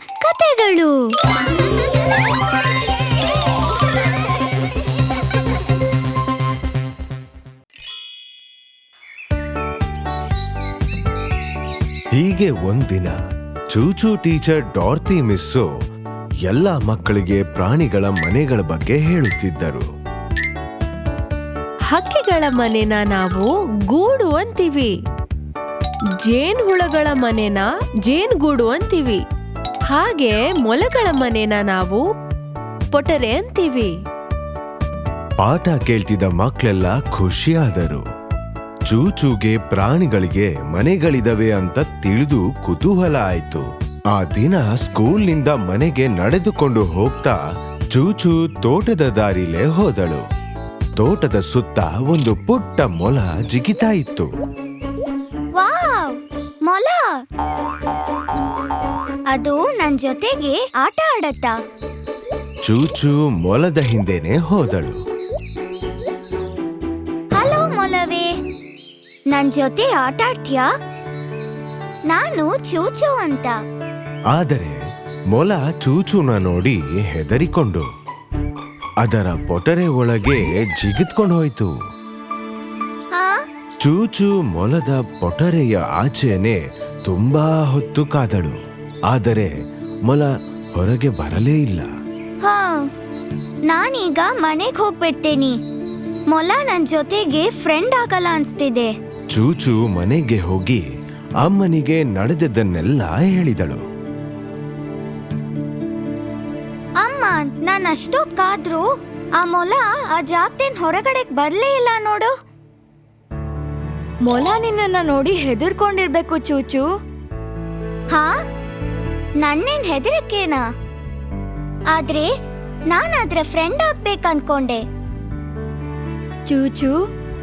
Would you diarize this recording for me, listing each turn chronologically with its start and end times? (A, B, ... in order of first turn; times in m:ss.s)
0:12.1-0:13.2 A
0:13.7-0:15.7 A
0:16.4-0:19.8 A
0:21.9-0:24.9 B
0:26.2-0:29.2 B
0:29.9-0:32.0 B
0:32.9-0:33.9 B
0:35.4-0:38.0 A
0:38.9-0:47.4 A
0:47.9-0:50.2 A
0:51.0-0:54.3 A
0:55.6-0:56.1 C
0:56.7-0:57.0 C
0:59.3-1:01.5 C
1:02.6-1:05.0 A
1:07.3-1:08.2 C
1:09.3-1:10.7 C
1:12.1-1:13.6 C
1:14.3-1:14.8 A
1:15.3-1:17.8 A
1:19.0-1:21.7 A
1:23.8-1:28.6 A
1:29.1-1:29.5 A
1:30.0-1:31.9 A
1:32.4-1:32.8 C
1:33.7-1:35.5 C
1:36.3-1:38.9 C
1:39.3-1:40.8 A
1:41.4-1:43.8 A
1:47.0-1:48.8 C
1:49.4-1:52.3 C
1:54.2-1:56.8 D
1:59.4-2:00.6 C
2:01.9-2:02.3 C
2:02.9-2:04.8 C
2:06.5-2:06.9 D